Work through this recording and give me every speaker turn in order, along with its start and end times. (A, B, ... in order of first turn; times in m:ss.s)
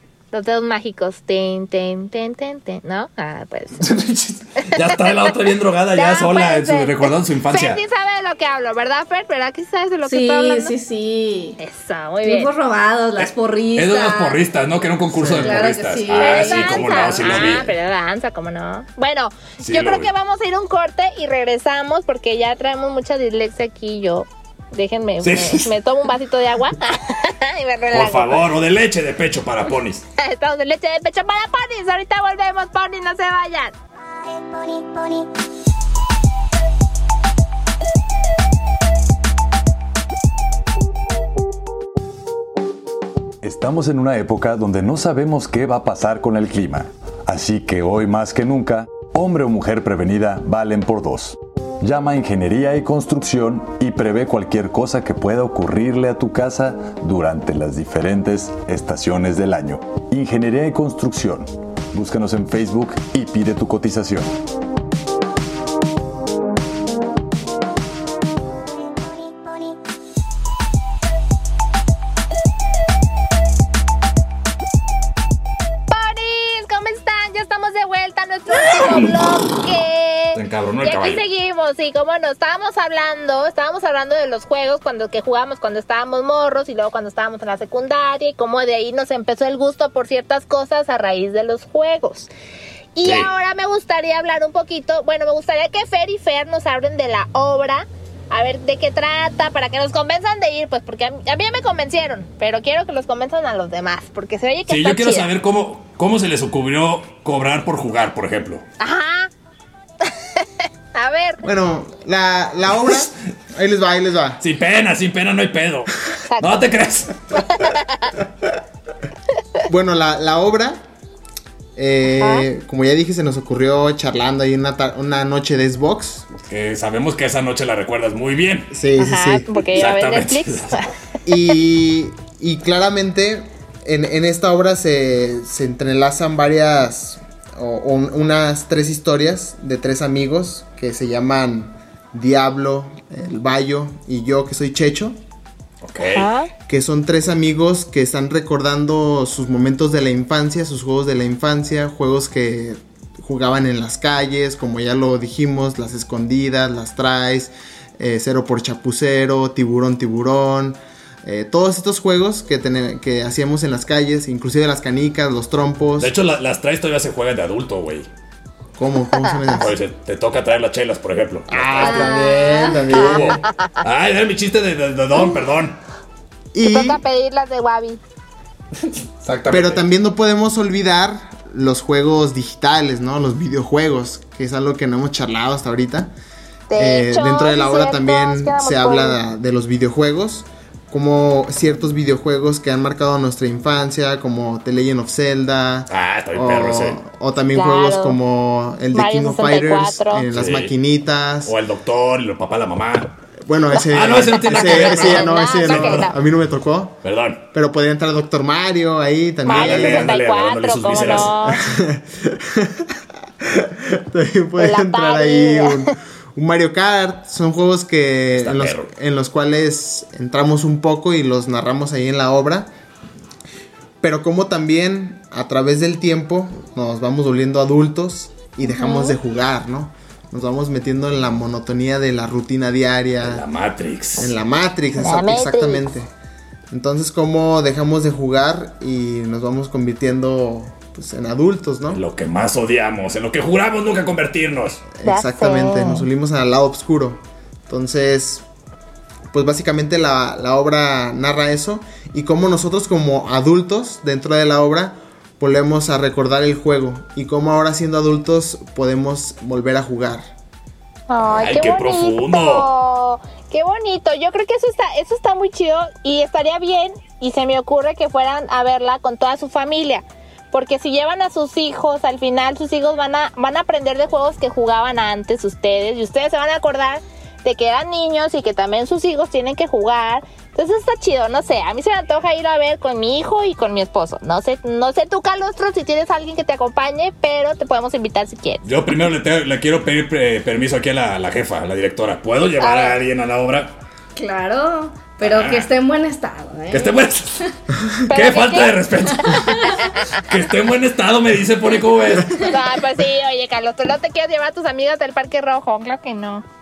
0:00.3-0:03.8 A
0:03.8-0:07.8 B
0:04.7-0:05.2 A
0:05.9-0:10.7 A
0:10.0-0:11.6 C
0:11.6-0:12.5 A
0:12.2-0:14.4 C
0:13.2-0:17.7 B
0:15.1-0:15.6 D
0:15.3-0:17.6 C
0:16.1-0:28.4 A
0:19.6-0:20.1 B
0:25.2-0:25.7 B
0:27.9-0:30.0 B
0:30.2-0:33.7 A
0:43.4-1:04.4 E
1:15.9-1:32.3 A
1:18.7-1:19.1 B
1:20.3-1:21.2 B
1:32.9-1:45.3 A
1:33.0-1:33.3 B
1:44.7-1:48.6 B
1:48.8-1:49.3 A
1:50.0-1:51.4 A
1:51.4-1:54.4 D
1:52.8-1:53.1 B
1:54.4-1:57.2 B
1:56.3-1:56.7 A
1:57.5-1:58.1 A
1:59.6-2:00.8 D
2:01.8-2:06.3 D
2:02.2-2:02.5 A
2:06.5-2:08.7 B
2:08.7-2:09.5 D
2:09.0-2:10.9 A
2:09.6-2:10.8 B
2:11.2-2:25.2 D
2:25.8-2:26.3 B
2:26.0-2:26.5 A
2:26.7-2:46.1 D
2:46.0-2:48.1 B
2:48.8-2:49.7 D
2:49.5-2:52.2 B
2:51.5-2:53.4 D
2:51.8-2:52.8 C
2:52.9-2:55.8 B
2:52.9-2:53.7 A
2:56.5-2:57.0 D
2:56.6-2:58.0 A
2:59.2-2:59.8 B
2:59.5-3:06.1 D
3:06.7-3:09.2 A
3:06.8-3:21.5 D
3:15.9-3:17.0 B
3:17.5-3:18.2 A
3:18.9-3:20.2 A
3:20.3-3:20.7 B
3:21.4-3:23.1 B
3:23.4-3:27.0 D
3:23.9-3:26.1 B
3:24.4-3:26.1 A
3:27.0-3:27.4 B
3:27.5-3:30.2 D
3:29.4-3:31.6 A
3:29.5-3:31.4 B
3:31.5-3:42.7 D
3:34.6-3:35.9 A
3:38.4-3:38.9 B
3:44.0-3:53.4 D
3:48.6-3:49.2 A
3:53.2-3:54.3 B
3:54.2-3:56.1 D
3:55.0-3:55.9 A
3:56.7-4:02.0 D
4:01.9-4:04.8 B
4:05.0-4:08.4 D
4:05.0-4:06.1 A
4:09.3-4:20.3 D
4:21.1-4:48.6 A
4:21.2-4:22.7 B
4:48.6-4:53.7 B
4:52.6-4:53.0 A
4:54.1-4:57.1 C
4:55.2-4:55.7 B
4:56.7-4:57.5 B
4:57.8-4:58.0 D
4:58.0-5:02.4 B
4:58.1-4:58.8 A
4:59.3-4:59.8 C
5:02.4-5:06.4 A